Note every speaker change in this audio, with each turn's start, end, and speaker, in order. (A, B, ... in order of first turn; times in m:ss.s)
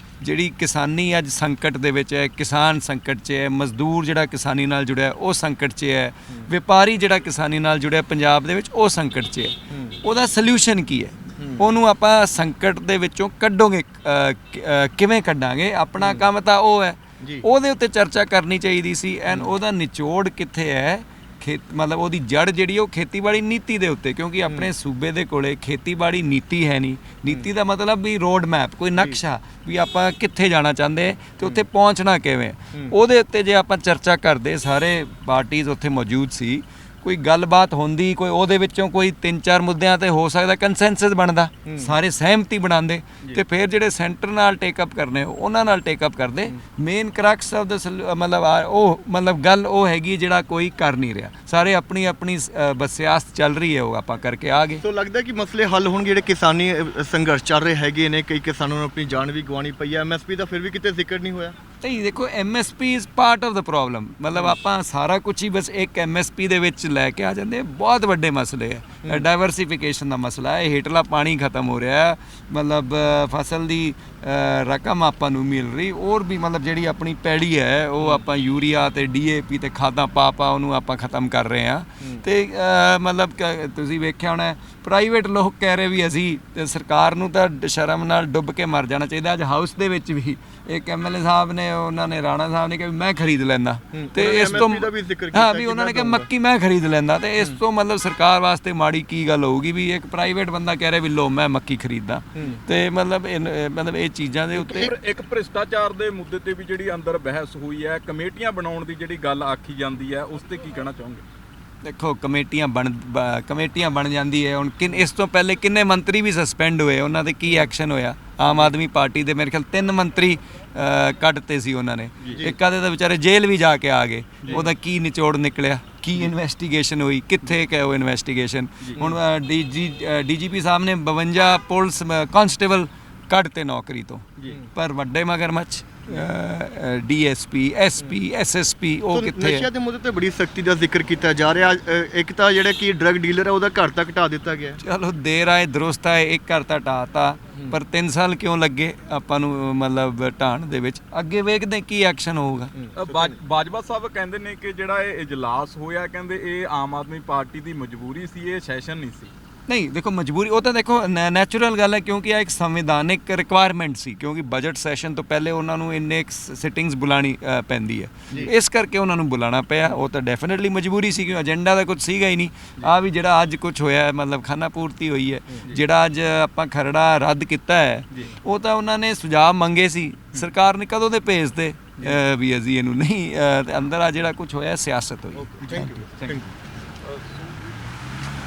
0:00.2-0:54.8 A
0:09.7-0:10.0 B
0:11.4-0:11.6 B
0:16.0-0:16.2 B
0:41.7-0:41.9 B
0:54.8-1:01.6 B
1:01.8-1:44.9 A
1:18.0-1:18.3 B
1:33.9-1:36.3 B
1:44.6-1:51.2 C
1:51.8-2:19.7 A
1:58.5-1:58.7 C
2:04.4-2:04.7 C
2:08.8-2:09.2 C
2:14.4-2:14.6 C
2:19.1-2:24.8 B
2:24.8-2:32.7 A
2:32.8-2:33.4 B
2:33.0-2:39.3 C
2:39.7-3:06.0 A
2:58.1-2:58.4 C
3:05.6-3:07.5 C
3:05.6-3:06.4 B